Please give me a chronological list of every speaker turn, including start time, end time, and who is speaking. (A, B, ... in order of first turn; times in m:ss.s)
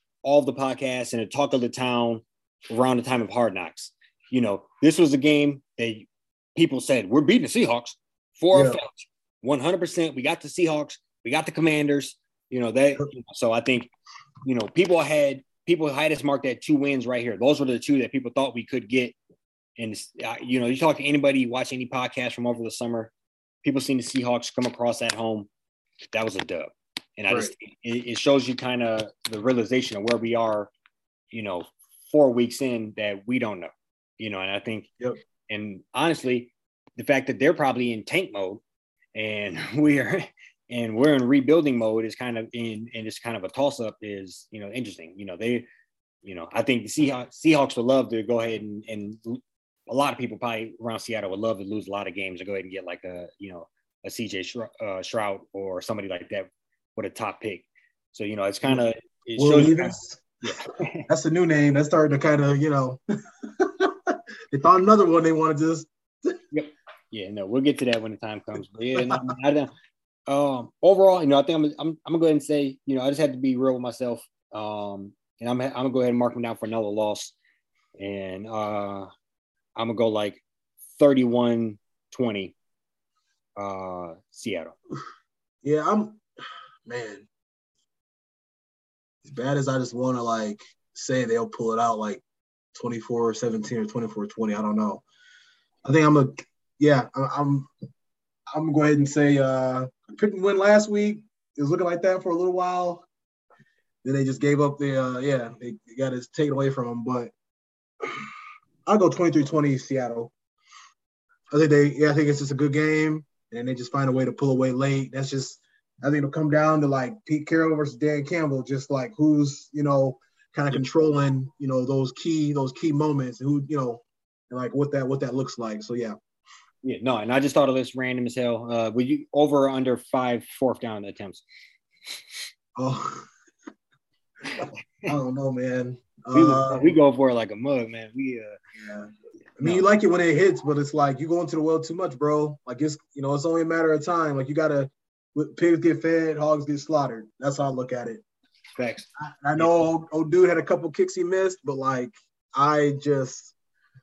0:00.2-0:13.9 A
0:08.5-0:08.8 B
0:14.4-0:19.1 A
0:19.8-0:23.1 A
0:23.6-0:25.5 A
0:26.1-0:30.7 A
0:31.3-0:34.9 A
0:35.5-0:38.6 A
0:39.1-0:45.6 A
0:46.2-1:01.1 A
0:59.4-1:00.3 B
1:01.1-1:03.0 B
1:03.6-1:06.4 B
1:06.5-1:09.7 A
1:09.0-1:09.3 B
1:10.3-1:17.3 A
1:18.0-1:19.1 A
1:19.8-1:20.4 A
1:21.0-1:22.5 A
1:23.6-1:24.8 A
1:25.6-1:26.2 B
1:26.8-1:27.3 B
1:29.2-1:32.2 B
1:32.7-1:35.0 B
1:35.8-1:37.7 B
1:38.5-1:43.1 B
1:44.0-1:47.3 B
1:48.8-1:50.3 B
1:51.5-2:06.2 B
2:06.8-2:11.4 A
2:12.8-2:13.3 B
2:14.5-2:15.1 A
2:14.6-2:16.9 B
2:16.3-2:18.6 A
2:18.8-2:28.2 B
2:28.8-2:29.8 A
2:29.2-2:33.6 B